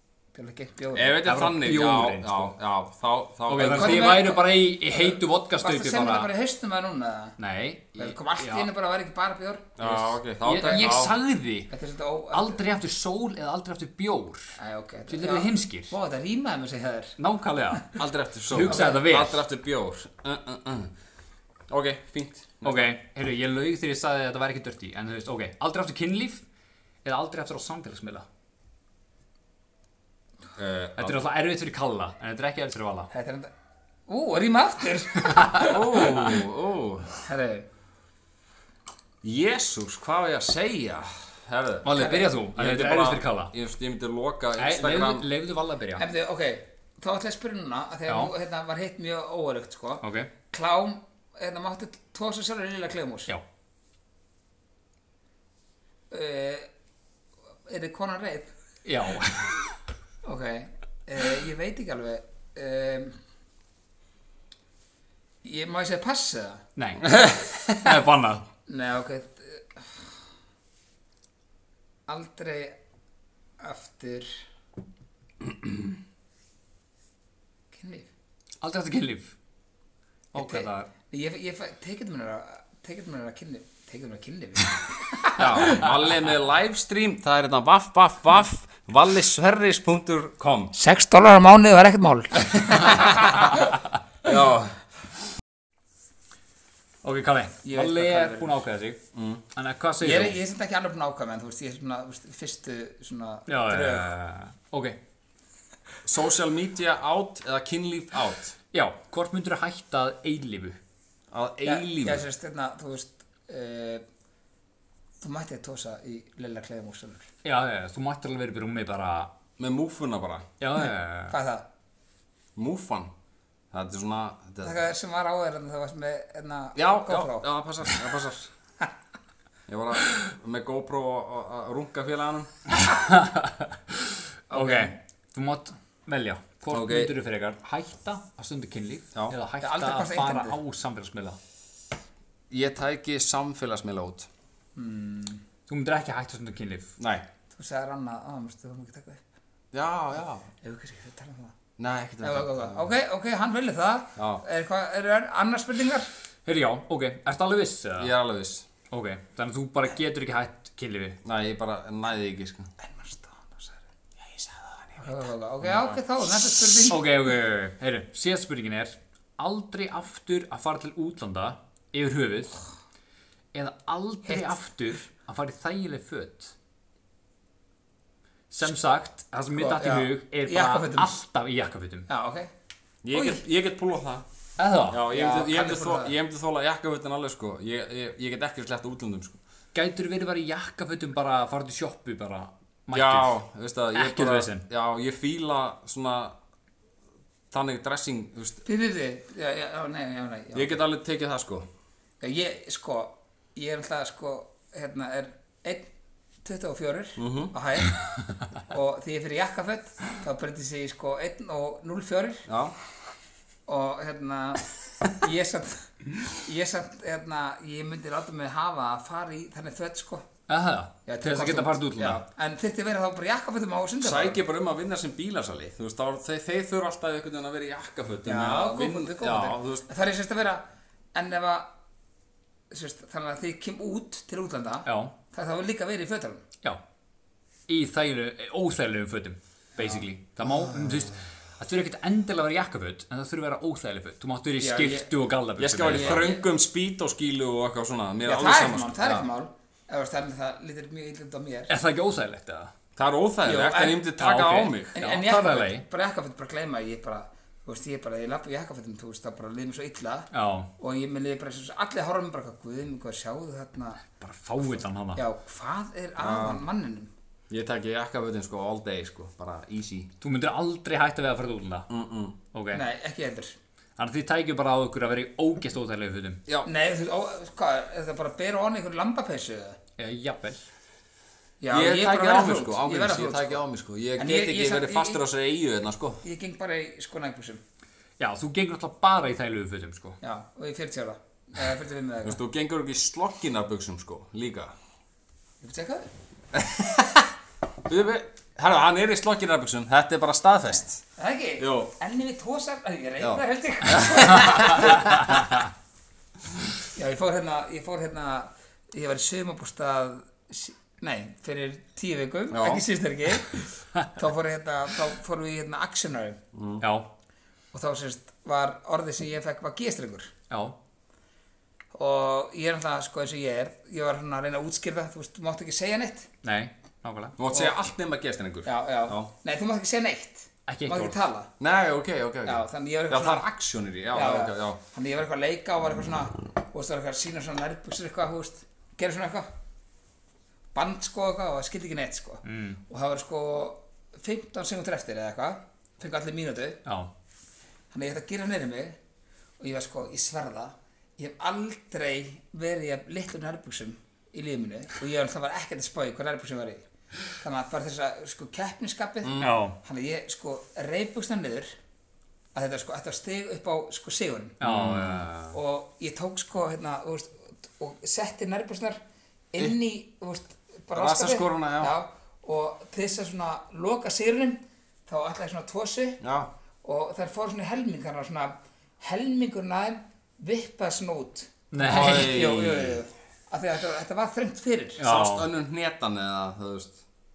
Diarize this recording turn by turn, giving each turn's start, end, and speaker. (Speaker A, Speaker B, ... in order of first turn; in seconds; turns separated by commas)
Speaker A: 0.3-1.2, Speaker B: 0.9-4.2, Speaker C: 1.2-2.5, Speaker C: 3.5-6.3, Speaker A: 3.6-7.4, Speaker C: 7.4-8.7, Speaker A: 8.0-9.7, Speaker B: 9.8-11.1, Speaker C: 9.8-11.7, Speaker A: 11.7-12.6, Speaker C: 12.3-15.9, Speaker A: 14.6-17.1, Speaker C: 17.2-19.4, Speaker B: 18.0-20.9, Speaker A: 18.7-19.0, Speaker B: 21.7-22.9, Speaker C: 22.6-26.4, Speaker C: 27.0-28.3, Speaker B: 30.6-31.2, Speaker C: 31.0-33.1, Speaker A: 33.1-33.5, Speaker A: 34.1-35.8, Speaker C: 35.2-36.3, Speaker B: 35.6-37.2, Speaker A: 37.2-37.7, Speaker B: 39.2-45.3, Speaker C: 41.9-43.5, Speaker A: 42.0-42.3, Speaker C: 44.6-46.0, Speaker A: 46.0-53.3, Speaker C: 50.0-50.3, Speaker A: 56.1-56.7, Speaker A: 57.7-58.5, Speaker C: 58.9-59.6, Speaker A: 60.2-63.2, Speaker A: 65.4-66.6, Speaker C: 66.8-68.5, Speaker B: 67.1-67.5, Speaker A: 68.7-70.1, Speaker A: 72.1-72.8, Speaker A: 73.6-74.3, Speaker A: 77.7-78.1, Speaker C: 78.6-79.3, Speaker C: 80.3-80.9, Speaker A: 80.3-85.9, Speaker B: 85.4-90.7, Speaker A: 90.8-93.7, Speaker B: 94.2-94.8, Speaker C: 97.0-99.0, Speaker A: 97.6-98.6, Speaker B: 99.1-99.4, Speaker C: 99.5-100.4, Speaker A: 100.0-104.1, Speaker C: 103.5-105.0, Speaker B: 106.0-108.6, Speaker C: 108.7-110.8, Speaker B: 111.3-112.2, Speaker A: 111.7-114.0, Speaker A: 115.2-117.3, Speaker C: 117.4-119.3, Speaker B: 119.6-120.5, Speaker C: 120.6-121.4, Speaker A: 121.3-121.7, Speaker B: 122.6-123.1, Speaker B: 123.7-124.8, Speaker A: 124.6-127.5, Speaker B: 126.8-128.5, Speaker B: 129.7-132.5, Speaker C: 132.8-141.4, Speaker A: 134.5-135.0, Speaker B: 136.7-137.1, Speaker A: 139.6-140.6, Speaker B: 142.5-144.3, Speaker A: 144.8-145.4, Speaker C: 145.7-146.9, Speaker B: 147.0-147.2, Speaker A: 147.5-149.2, Speaker B: 149.7-150.5, Speaker A: 150.6-151.6, Speaker B: 151.8-152.9, Speaker A: 152.2-156.1, Speaker B: 154.2-154.4, Speaker C: 156.5-158.1, Speaker B: 158.0-158.7, Speaker C: 158.9-161.2, Speaker B: 161.2-162.7, Speaker A: 162.8-163.8, Speaker B: 164.2-165.9, Speaker A: 165.0-167.0, Speaker C: 166.9-172.6, Speaker C: 173.5-176.5, Speaker A: 174.3-174.6, Speaker C: 178.5-182.1, Speaker A: 179.5-181.2, Speaker A: 182.1-182.5, Speaker B: 183.0-184.2, Speaker A: 183.1-183.4, Speaker C: 184.6-185.0, Speaker B: 184.9-189.4, Speaker A: 185.1-186.2, Speaker C: 189.7-193.4, Speaker B: 192.9-196.3, Speaker C: 193.9-194.6, Speaker B: 197.5-198.6, Speaker A: 198.7-200.8, Speaker B: 200.5-201.7, Speaker A: 202.2-205.9, Speaker A: 206.4-208.0, Speaker B: 207.2-207.5, Speaker A: 208.6-212.5, Speaker B: 212.5-212.8, Speaker A: 213.7-220.3, Speaker C: 220.5-222.2, Speaker A: 221.1-224.4, Speaker B: 224.0-229.9, Speaker A: 228.2-231.7, Speaker A: 232.7-236.4, Speaker C: 234.9-235.1, Speaker C: 237.7-246.3, Speaker A: 239.8-240.8, Speaker A: 244.6-245.1, Speaker B: 245.6-249.3, Speaker A: 245.9-246.4, Speaker A: 248.2-251.7, Speaker C: 251.7-252.7, Speaker B: 253.0-254.9, Speaker A: 253.4-254.0, Speaker C: 254.2-255.8, Speaker A: 254.9-264.0, Speaker C: 260.3-260.7, Speaker C: 264.2-265.2, Speaker A: 264.6-267.1, Speaker B: 266.2-266.6, Speaker B: 267.5-270.1, Speaker C: 270.2-271.9, Speaker B: 271.9-272.4, Speaker C: 272.5-272.8, Speaker A: 272.7-273.6, Speaker C: 274.0-276.4, Speaker A: 276.6-279.8, Speaker C: 280.0-280.6, Speaker A: 281.6-283.6, Speaker B: 281.7-286.2, Speaker A: 284.2-285.2, Speaker A: 286.2-287.6, Speaker C: 288.2-290.2, Speaker A: 290.2-292.4, Speaker B: 292.2-294.7, Speaker A: 295.6-296.1, Speaker B: 296.5-297.3, Speaker B: 297.9-301.0, Speaker A: 301.2-305.2, Speaker B: 301.6-301.9, Speaker B: 303.2-305.4, Speaker A: 306.9-316.4, Speaker B: 312.5-312.8, Speaker B: 316.5-316.8, Speaker C: 316.8-317.1, Speaker A: 317.7-320.3, Speaker C: 320.5-320.8, Speaker A: 321.9-326.3, Speaker C: 326.4-327.4, Speaker B: 327.4-329.3, Speaker A: 327.5-327.8, Speaker A: 328.6-331.5, Speaker C: 330.7-331.2, Speaker B: 331.6-334.8, Speaker A: 332.4-333.5, Speaker A: 334.1-339.5, Speaker A: 340.7-346.8, Speaker C: 342.4-342.8, Speaker A: 347.9-349.0, Speaker A: 349.6-361.7, Speaker B: 359.2-359.6, Speaker C: 359.4-359.8, Speaker A: 362.6-364.6, Speaker C: 364.6-365.4, Speaker B: 364.6-365.5, Speaker A: 365.5-369.0, Speaker A: 369.5-376.2, Speaker B: 370.9-371.9, Speaker B: 376.2-376.5, Speaker A: 376.8-385.0, Speaker C: 381.7-382.5, Speaker B: 381.8-383.0, Speaker C: 385.0-385.5, Speaker B: 385.0-387.0